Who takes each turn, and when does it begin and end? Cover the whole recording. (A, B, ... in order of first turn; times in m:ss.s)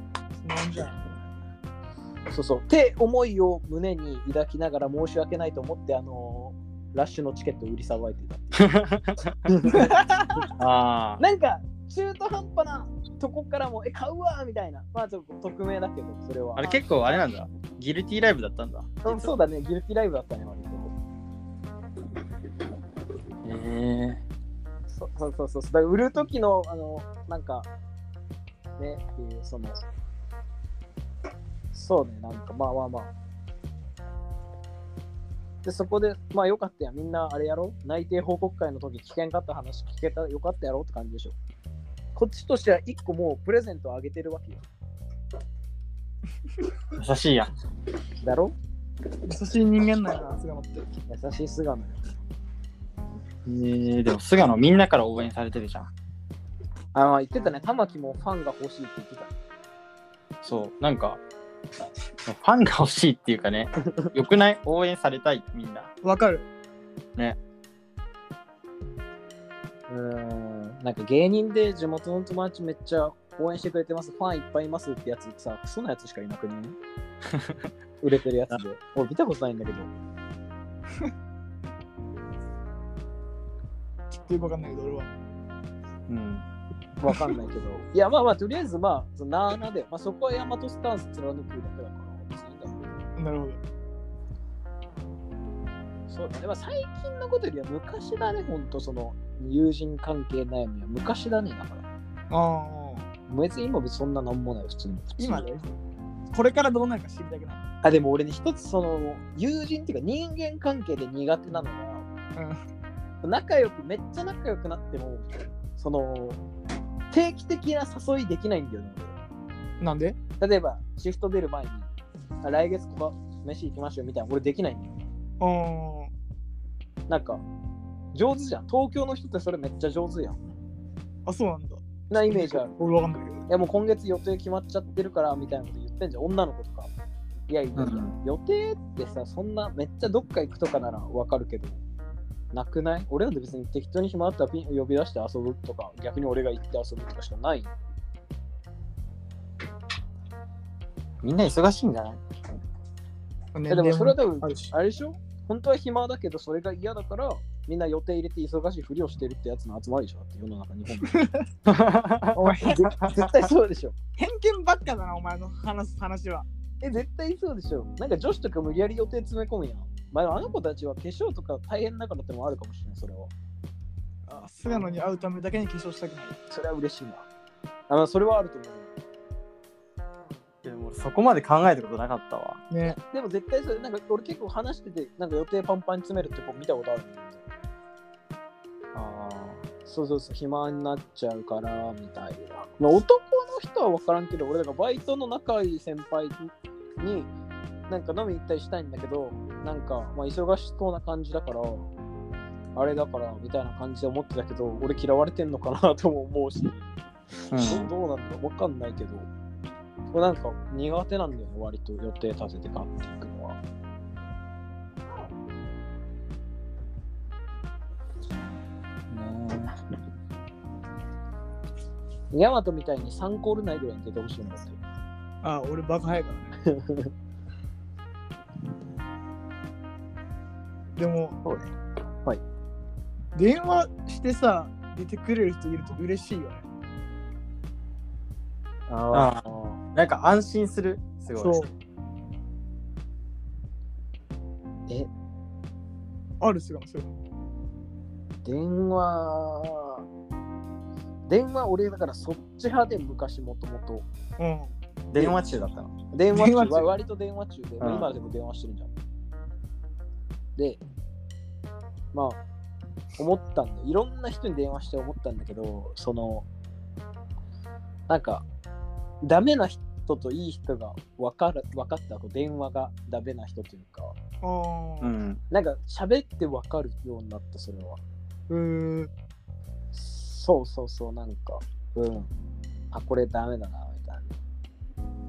0:00.4-0:01.0 A
0:02.3-0:08.8 B
0:08.5-0:09.6 C
0:09.5-0:10.0 B
0:09.7-0:10.5 A
0:10.6-0:11.2 C
0:11.2-0:16.7 B
0:16.6-0:19.4 C
0:16.6-0:17.0 A
0:19.0-0:20.9 B
0:23.4-0:24.2 C
0:24.9-0:27.7 B
0:28.8-0:29.8 B
0:31.7-0:33.1 B
0:35.6-0:41.3 B
0:42.2-0:44.6 B
0:46.9-0:47.5 C
0:48.2-0:48.6 B
0:49.2-0:50.9 A
0:51.1-0:52.0 B
0:53.4-0:55.9 C
0:56.9-0:59.3 B
1:00.4-1:01.2 C
1:02.2-1:05.9 C
1:06.0-1:06.5 A
1:09.9-1:16.8 B
1:17.3-1:17.6 C
1:18.0-1:19.9 B
1:24.1-1:25.1 A
1:26.1-1:26.4 C
1:27.0-1:32.8 B
1:33.2-1:33.6 A
1:36.1-1:41.8 B
1:42.3-1:43.0 A
1:43.3-1:45.5 B
1:45.2-1:45.7 A
1:46.3-1:47.6 A
1:47.8-1:52.0 B
1:53.2-1:56.4 B
1:57.1-1:59.1 B
1:59.8-2:00.2 A
2:00.4-2:01.9 B
2:02.4-2:05.0 B
2:05.4-2:06.1 A
2:07.1-2:07.4 B
2:08.1-2:10.4 B
2:11.2-2:13.4 A
2:12.1-2:12.7 B
2:13.5-2:16.9 B
2:17.5-2:21.8 B
2:17.8-2:18.1 C
2:22.5-2:27.7 B
2:31.2-2:32.2 C
2:33.5-2:34.7 A
2:33.7-2:41.1 B
2:41.0-2:41.4 A
2:41.6-2:43.2 C
2:42.3-2:42.9 A
2:42.7-2:43.9 B
2:44.2-2:46.4 A
2:46.8-2:53.3 B
2:54.3-2:56.4 A
2:56.5-2:57.3 B
2:57.9-2:58.9 B
3:00.6-3:02.6 C
3:02.7-3:03.0 A
3:03.1-3:07.5 B
3:08.9-3:09.6 C
3:09.8-3:17.3 B
3:17.9-3:21.9 B
3:22.7-3:26.9 B
3:27.5-3:27.9 C
3:27.5-3:29.3 B
3:30.1-3:33.6 B
3:39.1-3:39.7 C
3:42.3-3:44.8 B
3:45.4-3:46.6 A
3:46.6-3:47.1 B
3:51.0-3:51.4 A
3:51.4-3:51.7 B
3:53.3-3:56.6 A
3:58.9-3:59.8 B
3:59.1-4:01.6 C
4:01.3-4:01.7 A
4:06.4-4:07.1 A
4:08.4-4:10.0 B
4:11.3-4:14.0 B
4:14.4-4:14.7 A
4:15.1-4:15.9 C
4:16.1-4:18.9 B
4:16.3-4:16.9 A
4:17.8-4:18.1 C
4:20.6-4:20.8 B
4:22.1-4:22.4 B
4:23.2-4:26.4 B
4:28.1-4:28.4 B
4:29.2-4:34.2 B
4:34.4-4:35.1 A
4:35.0-4:35.4 C
4:35.5-4:38.0 B
4:38.5-4:39.1 A
4:39.9-4:42.3 B
4:42.9-4:44.4 B